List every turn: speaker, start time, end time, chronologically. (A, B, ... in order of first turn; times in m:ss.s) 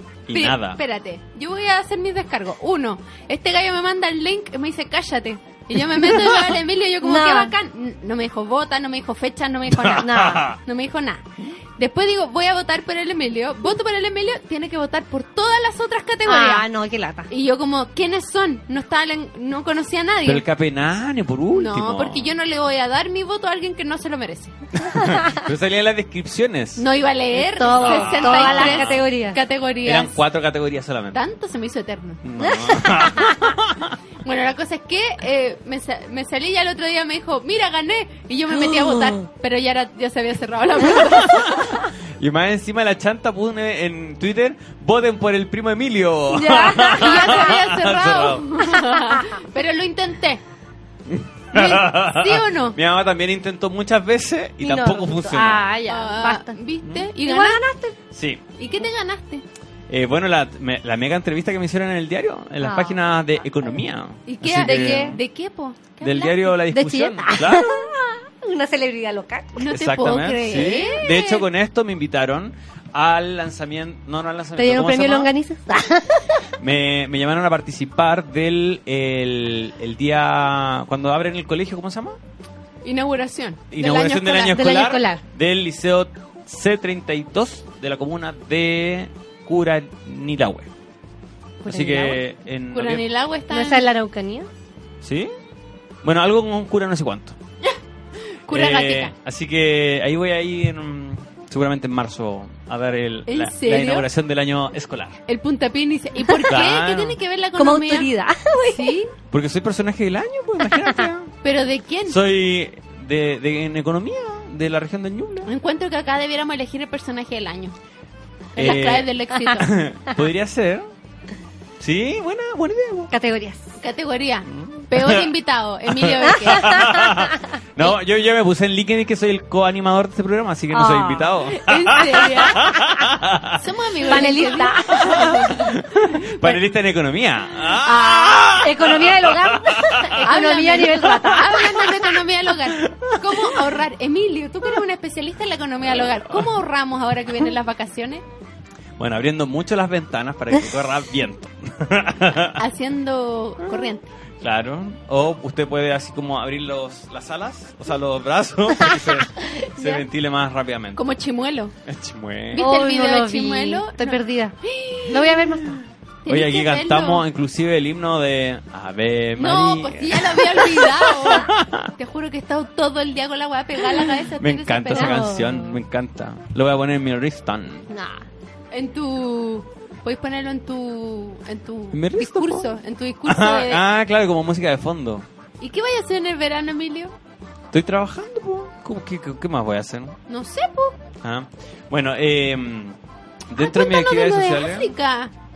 0:00.3-0:00.8 A
0:00.3-0:11.2 B
0:07.0-0:07.5 C
0:09.7-0:10.6 A
0:10.0-0:10.5 C
0:11.8-0:16.6 B
0:16.2-0:17.3 C
0:17.3-0:20.4 B
0:20.2-0:22.3 A
0:21.5-0:24.5 B
0:24.8-0:26.8 A
0:26.8-0:30.2 B
0:27.3-0:29.4 C
0:27.7-0:29.0 A
0:29.8-0:31.2 A
0:31.1-0:32.2 B
0:32.2-0:34.0 A
0:32.4-0:33.3 C
0:34.2-0:41.8 B
0:41.2-0:48.5 A
0:46.3-0:47.5 C
0:46.9-0:50.4 B
0:51.1-0:55.6 A
0:51.5-0:52.8 B
0:54.6-0:56.6 C
0:55.9-0:57.6 B
0:57.2-0:58.0 C
0:58.1-0:58.4 A
0:58.6-0:59.4 B
0:59.9-1:05.2 A
1:02.6-1:03.0 C
1:04.3-1:06.4 B
1:04.5-1:05.2 C
1:06.0-1:07.7 A
1:06.5-1:09.7 C
1:09.6-1:11.4 B
1:09.7-1:15.3 A
1:14.6-1:16.3 C
1:16.6-1:22.2 A
1:22.8-1:24.6 B
1:23.7-1:30.7 A
1:24.4-1:25.2 C
1:31.6-1:32.2 C
1:31.6-1:33.0 A
1:32.7-1:33.8 B
1:33.5-1:34.5 C
1:35.0-1:35.3 A
1:36.0-1:37.4 A
1:38.5-1:39.1 B
1:38.5-1:45.2 A
1:43.3-1:44.1 B
1:45.3-1:49.1 B
1:46.5-1:47.2 A
1:47.5-1:49.0 C
1:49.3-1:51.3 A
1:50.7-1:51.1 C
1:51.4-1:52.2 B
1:52.1-1:55.5 A
1:55.4-1:57.7 B
1:58.5-1:59.8 B
1:58.6-2:00.8 A
2:01.8-2:03.1 A
2:03.1-2:03.6 C
2:03.8-2:06.9 B
2:04.5-2:05.3 A
2:05.9-2:13.6 A
2:06.4-2:07.2 C
2:10.7-2:11.4 C
2:11.6-2:12.6 B
2:13.6-2:15.7 B
2:14.0-2:15.5 C
2:15.0-2:20.3 A
2:17.8-2:21.8 C
2:20.1-2:28.2 B
2:22.7-2:23.6 A
2:25.9-2:26.5 A
2:29.0-2:32.6 A
2:32.6-2:34.1 B
2:34.4-2:41.0 A
2:40.9-2:41.7 B
2:41.8-2:42.6 A
2:42.5-2:47.2 B
2:42.5-2:44.5 C
2:45.1-2:45.8 C
2:46.3-2:51.9 A
2:49.4-2:55.2 B
2:54.4-2:57.9 A
2:54.9-2:55.8 C
2:57.9-2:58.2 C
2:58.7-3:03.8 B
3:01.9-3:02.7 A
3:03.3-3:05.2 A
3:05.6-3:07.1 B
3:07.7-3:10.2 A
3:10.3-3:11.0 B
3:11.2-3:13.0 A
3:13.5-3:14.9 A
3:13.6-3:15.3 B